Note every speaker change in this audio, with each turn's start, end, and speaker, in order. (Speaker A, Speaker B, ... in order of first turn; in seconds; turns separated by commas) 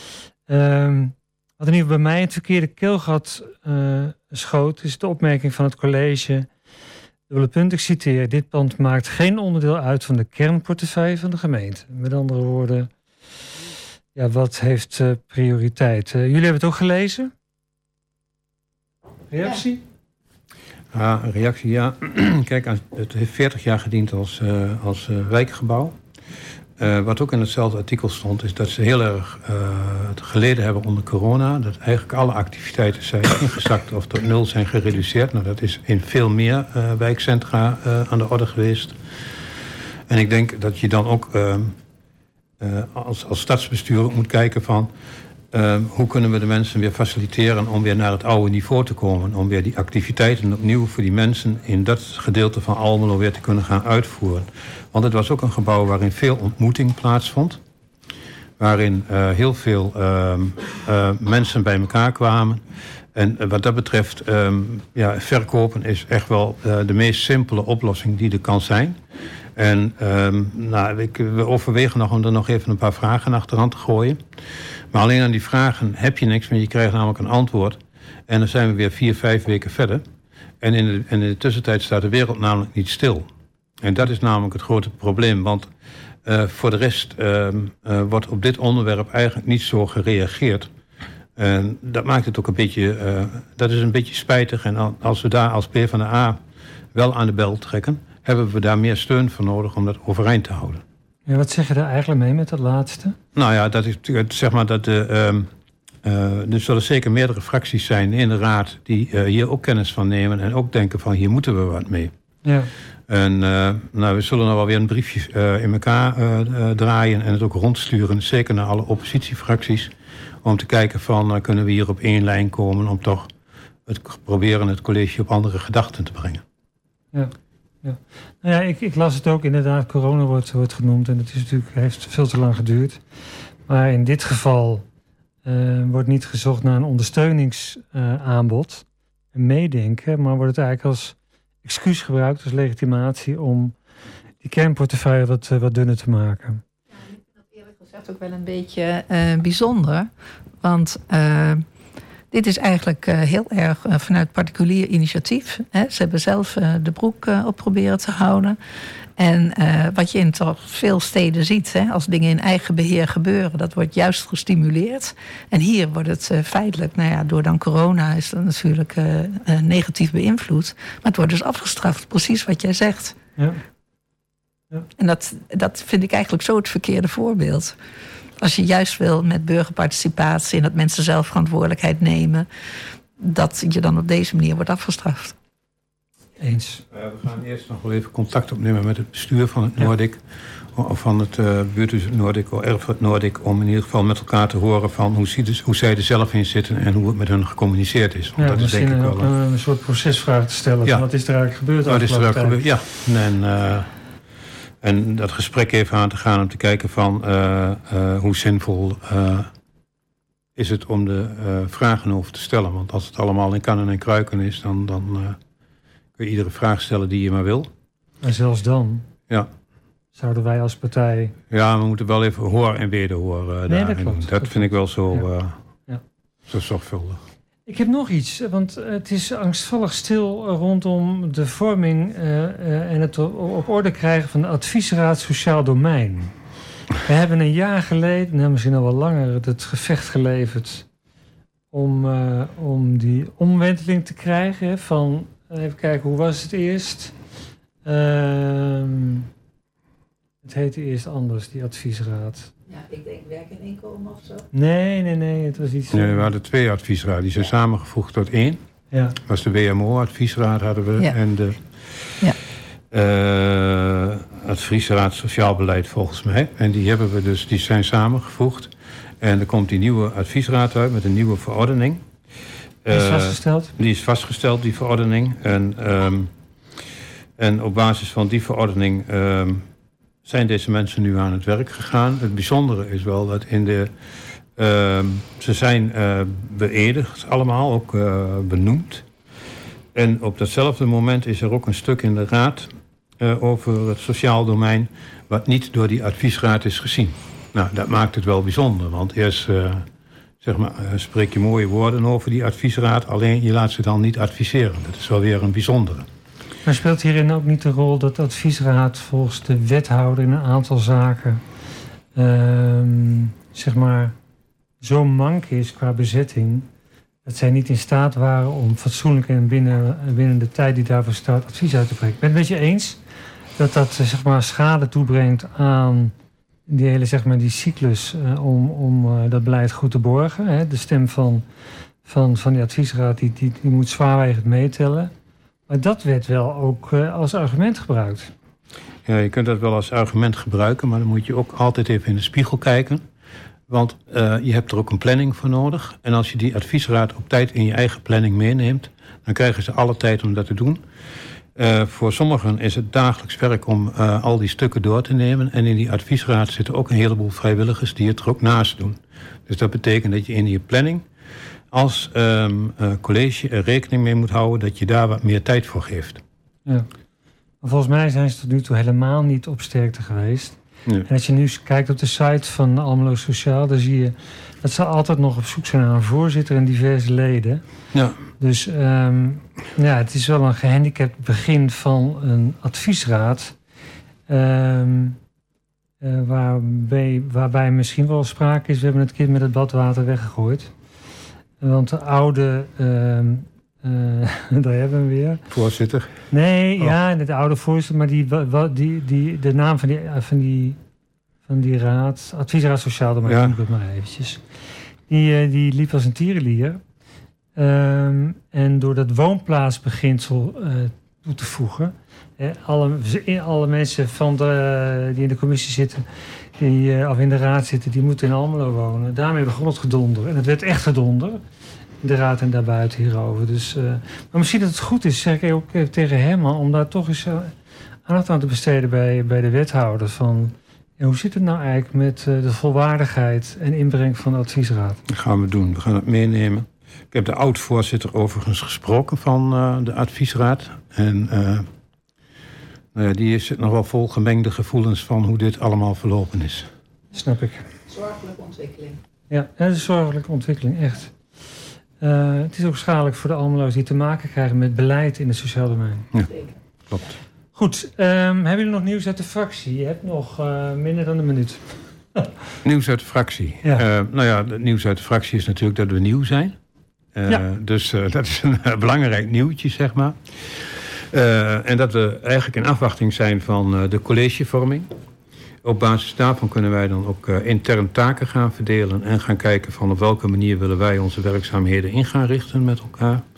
Speaker A: 0.5-6.5, Speaker A: 7.3-12.9, Speaker A: 14.2-17.3, Speaker A: 19.3-19.8, Speaker B: 20.9-26.0, Speaker B: 26.8-39.0, Speaker B: 40.1-41.8, Speaker B: 42.6-44.9, Speaker B: 45.5-57.6, Speaker B: 58.6-62.6, Speaker B: 63.1-69.0, Speaker B: 69.6-74.2, Speaker B: 74.9-80.0, Speaker B: 80.6-83.3, Speaker B: 83.8-85.7, Speaker B: 86.2-90.7, Speaker B: 91.4-96.4, Speaker B: 96.9-100.8, Speaker A: 101.3-103.2, Speaker B: 103.3-105.5, Speaker B: 106.0-112.1, Speaker A: 112.4-112.7, Speaker B: 113.1-119.9, Speaker B: 120.4-123.3, Speaker B: 123.9-126.4, Speaker A: 127.1-133.0, Speaker A: 133.7-134.8, Speaker A: 135.4-143.7, Speaker A: 144.4-146.6, Speaker C: 147.5-150.1, Speaker C: 150.6-151.7, Speaker C: 152.3-158.6, Speaker C: 159.2-173.2, Speaker C: 175.0-177.8, Speaker C: 178.4-182.5, Speaker C: 183.2-185.3, Speaker A: 186.4-186.8, Speaker B: 186.9-190.2, Speaker B: 190.7-199.3, Speaker A: 198.4-202.6, Speaker B: 201.8-203.9, Speaker B: 204.8-209.5, Speaker B: 210.6-215.4, Speaker B: 216.2-217.7, Speaker A: 218.2-219.1, Speaker A: 220.2-221.3, Speaker B: 221.5-225.6, Speaker A: 223.7-225.3, Speaker B: 226.5-227.2, Speaker A: 227.7-236.3, Speaker A: 237.0-240.9, Speaker A: 241.7-247.2, Speaker A: 247.8-249.3, Speaker A: 250.4-252.5, Speaker C: 252.7-254.5, Speaker A: 254.5-256.3, Speaker B: 255.9-258.6, Speaker A: 258.9-259.2, Speaker B: 259.2-261.9, Speaker B: 262.9-272.1, Speaker B: 272.9-276.3, Speaker A: 272.9-273.7, Speaker B: 277.4-279.7, Speaker B: 280.2-283.9, Speaker B: 284.6-289.1, Speaker B: 289.9-299.9, Speaker B: 300.4-306.1, Speaker A: 306.6-311.4, Speaker A: 312.2-314.1, Speaker A: 314.8-316.7, Speaker A: 317.3-323.0, Speaker A: 323.6-326.1, Speaker A: 326.7-331.4, Speaker A: 332.1-335.1, Speaker A: 335.7-338.3, Speaker B: 339.1-343.1, Speaker B: 343.7-350.8, Speaker B: 351.6-361.1, Speaker B: 361.7-366.2, Speaker A: 367.6-377.6, Speaker B: 377.9-378.2, Speaker A: 378.4-383.6, Speaker A: 384.3-385.2, Speaker A: 386.0-390.7, Speaker A: 391.6-395.4, Speaker B: 395.5-397.0, Speaker A: 396.3-400.8, Speaker A: 401.5-404.4, Speaker B: 403.2-403.6, Speaker A: 405.1-406.8, Speaker A: 407.6-416.1, Speaker A: 416.6-421.4, Speaker A: 422.0-427.5, Speaker A: 428.1-435.0, Speaker B: 435.1-441.7, Speaker B: 442.9-446.7, Speaker A: 447.1-447.6, Speaker C: 447.9-449.0, Speaker A: 449.3-451.1, Speaker A: 452.0-456.1, Speaker A: 457.6-462.3, Speaker B: 462.6-466.6, Speaker B: 467.1-474.9, Speaker B: 475.6-483.2